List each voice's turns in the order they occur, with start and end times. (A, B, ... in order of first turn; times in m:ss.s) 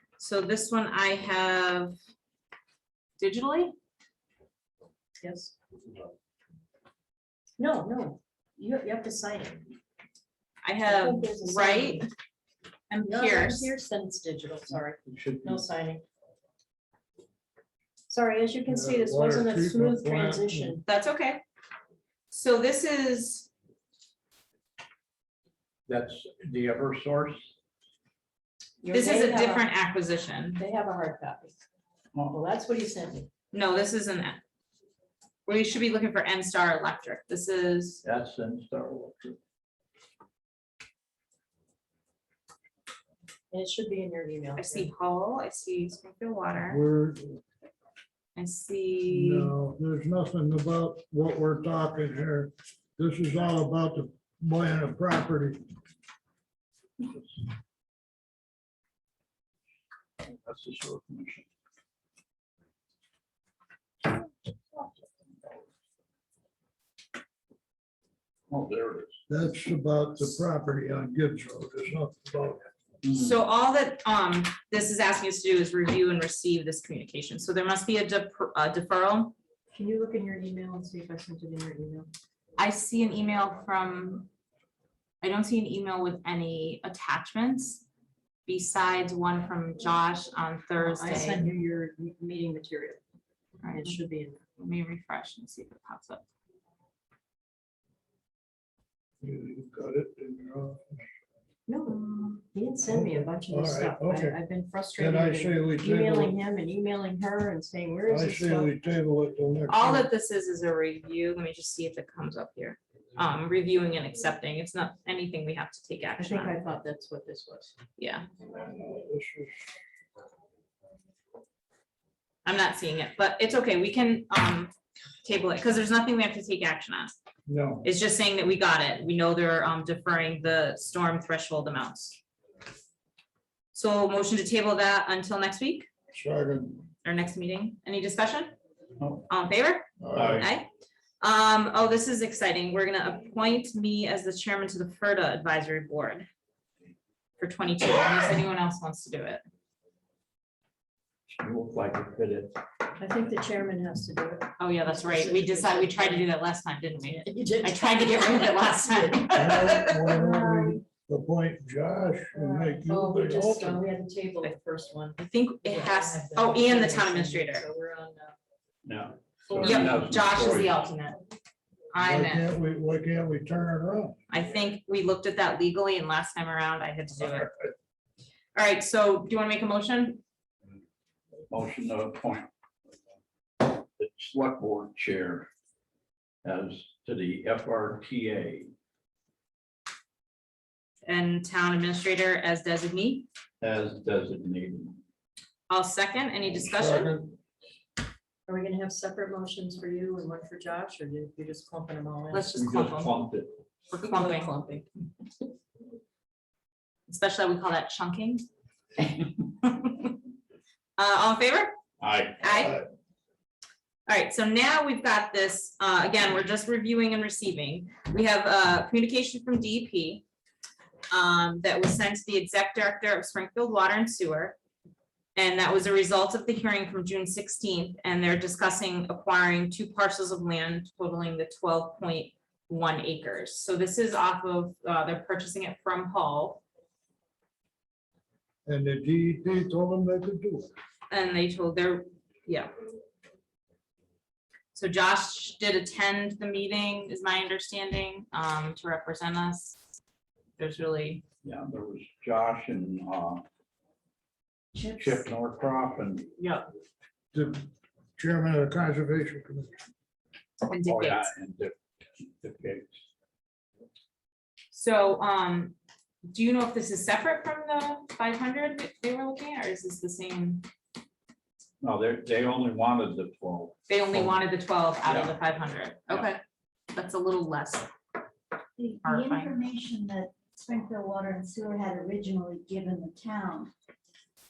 0:00.2-0:02.0 A
0:03.2-0:03.7 A
0:05.2-0:05.5 B
0:07.6-0:09.7 B
0:10.6-0:12.1 A
0:10.8-0:12.1 B
0:12.9-0:13.7 A
0:13.1-0:16.0 B
0:15.0-0:15.6 C
0:18.1-0:20.8 B
0:18.7-0:20.8 D
0:20.9-0:21.4 A
0:22.3-0:23.5 A
0:25.9-0:27.5 C
0:28.8-0:29.7 B
0:28.9-0:30.6 A
0:30.5-0:31.6 B
0:32.3-0:33.3 B
0:33.5-0:34.4 A
0:35.4-0:38.0 A
0:38.0-0:39.4 C
0:43.5-0:44.9 B
0:44.6-0:46.8 A
0:46.6-0:47.4 D
0:48.4-0:49.5 A
0:49.1-0:55.6 D
1:00.2-1:01.4 C
1:04.8-1:05.6 C
1:08.5-1:09.2 C
1:09.3-1:12.6 D
1:13.0-1:13.3 C
1:13.1-1:19.3 A
1:19.7-1:22.1 B
1:22.6-1:24.3 A
1:25.2-1:27.8 A
1:28.5-1:31.4 A
1:30.8-1:33.0 B
1:33.6-1:34.0 A
1:33.7-1:34.4 B
1:34.6-1:36.2 A
1:39.2-1:41.0 D
1:41.7-1:48.7 B
1:42.9-1:44.4 D
1:45.0-1:46.4 D
1:48.1-1:50.1 D
1:49.7-1:56.6 A
1:56.2-1:57.7 B
1:58.0-1:58.2 A
1:58.4-1:59.6 D
2:02.4-2:04.7 A
2:05.2-2:07.1 A
2:07.5-2:07.8 D
2:07.8-2:12.2 A
2:13.7-2:15.9 A
2:16.1-2:16.9 D
2:17.0-2:18.5 A
2:19.0-2:19.2 C
2:19.3-2:20.7 A
2:20.0-2:20.5 D
2:20.1-2:20.5 C
2:21.2-2:26.3 A
2:27.4-2:29.4 A
2:31.3-2:32.6 C
2:33.0-2:36.3 B
2:34.6-2:40.3 A
2:37.0-2:38.8 B
2:39.2-2:43.8 D
2:40.1-2:40.8 B
2:42.4-2:48.4 B
2:45.2-2:47.6 A
2:48.8-2:50.7 C
2:49.4-2:50.0 B
2:49.6-2:51.2 A
2:51.9-2:52.4 A
2:52.0-2:54.2 D
2:54.3-2:57.5 A
2:58.5-3:00.2 A
3:01.5-3:02.5 C
3:03.6-3:05.5 C
3:06.4-3:08.7 C
3:11.0-3:13.2 A
3:13.6-3:15.0 C
3:15.7-3:17.1 A
3:16.5-3:17.3 D
3:18.5-3:22.5 B
3:22.3-3:23.2 A
3:22.6-3:23.6 C
3:23.9-3:24.5 A
3:24.0-3:24.8 B
3:27.1-3:28.4 A
3:29.6-3:30.1 A
3:31.0-3:31.7 A
3:32.0-3:32.8 C
3:32.4-3:32.8 A
3:34.1-3:40.2 A
3:41.1-3:44.6 A
3:45.4-3:56.6 A
3:58.6-4:00.7 D
4:01.1-4:02.7 A
4:04.7-4:09.8 A
4:10.6-4:11.2 A
4:11.4-4:13.4 C
4:14.8-4:16.3 C
4:16.4-4:16.6 A
4:17.3-4:19.8 D
4:20.6-4:21.3 A
4:20.8-4:23.0 C
4:24.7-4:30.6 A
4:31.8-4:34.4 C
4:33.9-4:36.4 A
4:35.0-4:35.3 C
4:36.9-4:37.9 A
4:38.8-4:43.7 E
4:39.0-4:39.6 A